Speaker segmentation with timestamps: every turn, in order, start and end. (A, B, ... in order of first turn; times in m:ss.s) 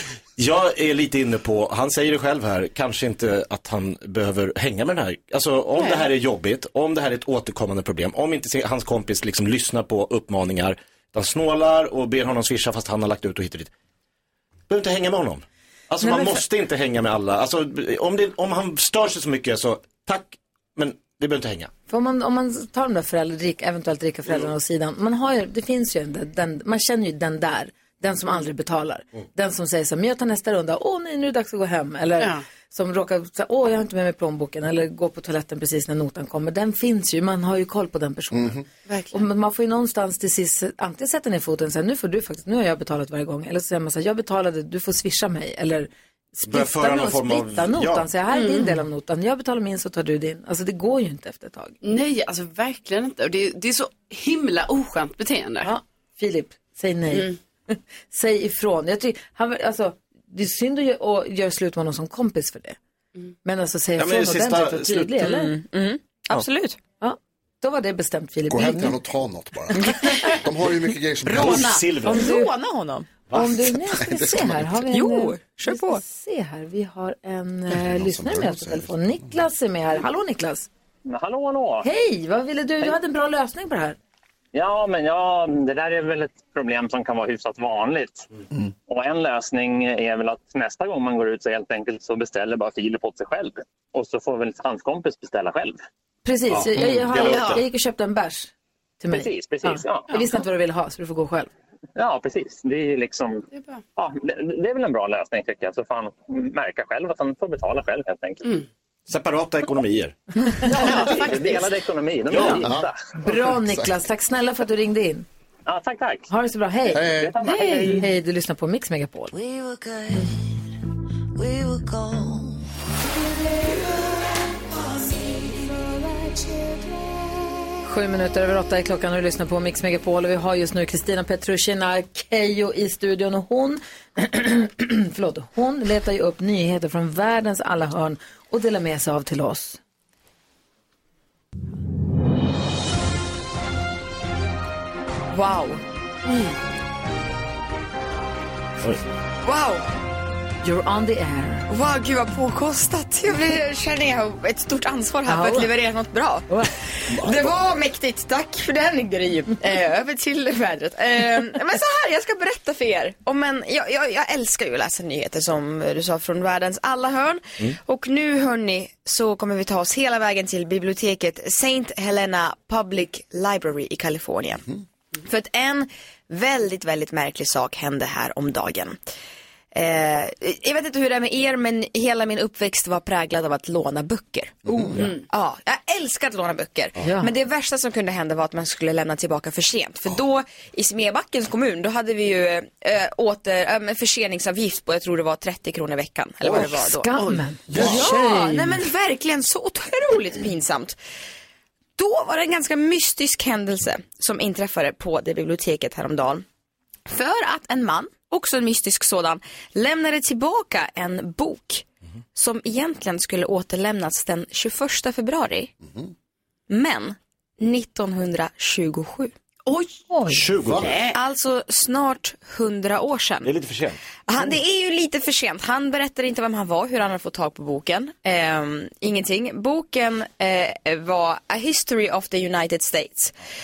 0:00.4-0:13.7 A
0:05.8-0:06.0 B
0:14.7-0:21.7 A
0:16.0-0:16.4 C
0:21.9-0:51.8 C
0:38.3-0:38.6 D
0:38.9-0:39.1 B
0:46.5-0:48.0 A
0:48.3-0:48.7 B
0:51.8-0:55.7 B
0:55.6-1:02.8 C
1:03.4-1:05.6 C
1:04.0-1:05.2 A
1:05.2-1:06.8 E
1:07.0-1:09.0 C
1:08.5-1:11.7 D
1:09.7-1:10.2 C
1:09.9-1:10.4 E
1:11.2-1:12.4 A
1:11.2-1:13.1 E
1:12.0-1:12.5 C
1:13.3-1:20.7 C
1:13.4-1:14.8 D
1:14.9-1:16.0 E
1:17.7-1:19.2 D
1:21.0-1:21.8 F
1:21.8-1:24.0 C
1:24.5-1:28.3 F
1:28.9-1:35.8 F
1:36.2-1:41.5 C
1:36.5-1:37.6 A
1:37.2-1:37.6 B
1:39.1-1:40.1 F
1:42.0-1:48.4 F
1:43.5-1:43.8 B
1:49.1-1:50.2 A
1:50.7-1:53.0 F
1:50.7-1:51.4 A
1:50.8-1:51.7 B
1:52.3-1:52.6 A
1:52.4-1:53.9 D
1:53.2-1:55.3 C
1:55.7-1:56.3 F
1:56.3-1:59.3 C
1:56.9-1:57.4 D
1:56.9-1:58.1 F
1:59.4-2:00.6 G
2:01.3-2:02.6 G
2:03.5-2:03.8 G
2:05.0-2:05.5 G
2:07.8-2:19.8 C
2:25.3-2:25.8 E
2:26.3-2:26.5 B
2:29.4-2:29.8 E
2:30.6-2:31.7 C
2:31.7-2:54.6 E
2:35.2-2:35.7 C
2:37.1-2:37.6 D
2:55.2-2:59.0 E
2:59.7-3:17.2 E
3:04.6-3:04.9 D
3:05.0-3:05.2 B
3:07.0-3:07.3 C
3:16.7-3:18.8 C
3:17.1-3:17.4 B
3:17.7-3:21.0 E
3:17.7-3:18.0 D
3:22.0-3:26.4 E
3:27.1-3:35.7 E
3:35.8-3:36.1 D
3:36.7-3:39.3 E
3:39.7-3:40.0 B
3:40.1-3:40.4 C
3:40.3-3:41.0 A
3:40.6-3:40.9 D
3:40.8-3:41.2 B
3:41.1-3:43.5 E
3:43.4-3:44.0 A
3:44.3-3:53.4 E